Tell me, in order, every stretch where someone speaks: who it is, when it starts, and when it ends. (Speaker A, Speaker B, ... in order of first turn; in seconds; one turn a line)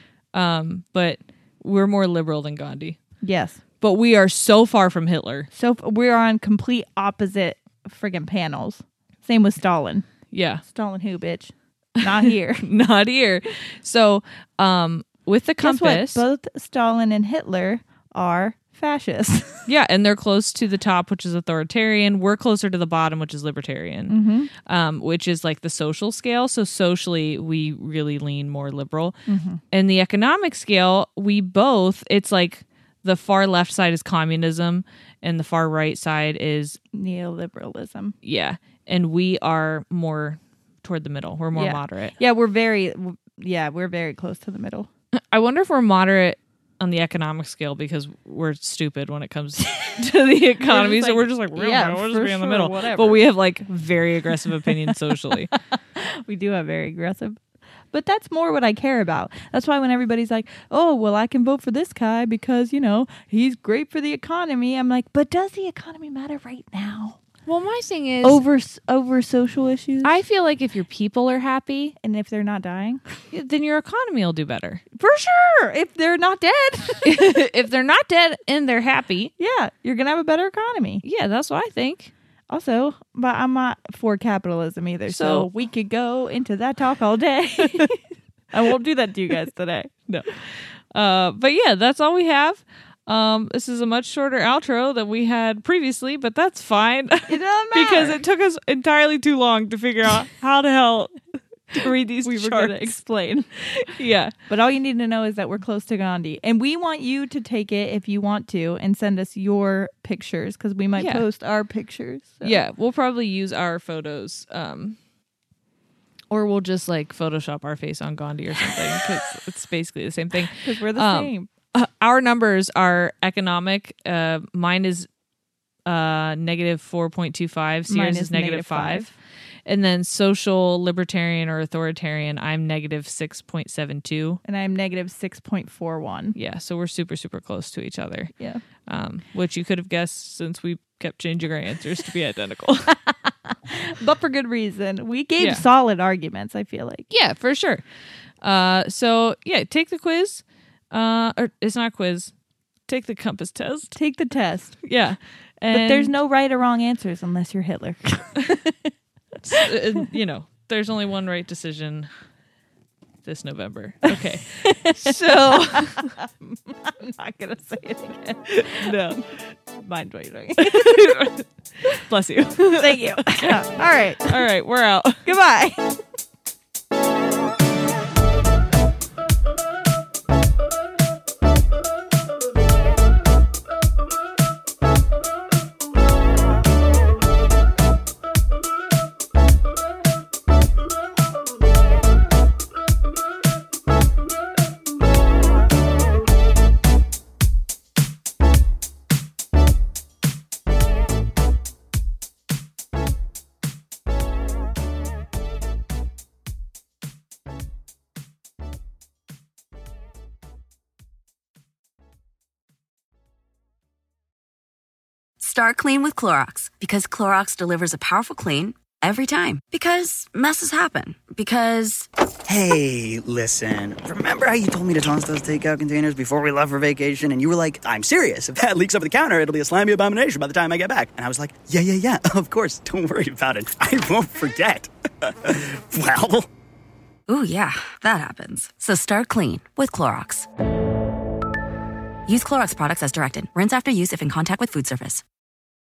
Speaker A: 0.3-3.0
Speaker B: 3.2-3.6
Speaker A: 3.8-5.5
Speaker B: 5.5-10.1
Speaker A: 10.3-10.6
Speaker B: 10.6-12.7
Speaker A: 12.6-16.2
Speaker B: 15.6-19.7
Speaker A: 19.7-29.2
Speaker B: 24.1-24.5
Speaker B: 29.3-29.6
Speaker A: 29.7-36.8
Speaker B: 36.9-38.2
Speaker A: 38.2-42.1
Speaker B: 41.5-44.9
Speaker A: 45.1-55.5
Speaker B: 50.6-53.2
Speaker B: 54.7-55.0
Speaker B: 55.5-57.4
Speaker B: 57.9-67.2
Speaker A: 67.5-68.4
Speaker B: 68.2-70.2
Speaker A: 70.0-72.0
Speaker B: 72.0-73.1
Speaker A: 73.3-74.8
Speaker B: 74.9-77.1
Speaker A: 77.0-79.3
Speaker B: 79.4-81.0
Speaker A: 81.0-82.1
Speaker B: 82.5-89.9
Speaker A: 85.1-85.5
Speaker A: 90.9-101.2
Speaker B: 97.3-98.2
Speaker A: 101.7-103.0
Speaker B: 102.2-103.5
Speaker A: 103.6-104.3
Speaker B: 104.5-112.6
Speaker A: 111.0-111.3
Speaker A: 112.4-115.0
Speaker A: 116.3-125.1
Speaker B: 120.5-121.5
Speaker A: 125.9-129.1
Speaker B: 127.9-129.1
Speaker A: 129.7-134.4
Speaker B: 134.4-136.4
Speaker A: 136.3-138.3
Speaker B: 138.4-138.6
Speaker A: 138.9-143.0
Speaker B: 143.3-147.1
Speaker A: 145.4-145.7
Speaker A: 147.1-147.8
Speaker A: 148.4-152.3
Speaker A: 152.9-154.0
Speaker B: 153.9-154.8
Speaker A: 154.8-156.1
Speaker B: 155.7-158.9
Speaker A: 159.4-162.1
Speaker A: 163.2-166.2
Speaker B: 164.6-169.2
Speaker A: 168.6-169.3
Speaker B: 169.8-171.1
Speaker A: 170.6-173.7
Speaker B: 172.8-174.4
Speaker A: 174.2-175.3
Speaker B: 175.2-176.0
Speaker C: 215.4-222.1
Speaker D: 222.5-236.5
Speaker C: 237.3-240.5
Speaker C: 242.3-245.2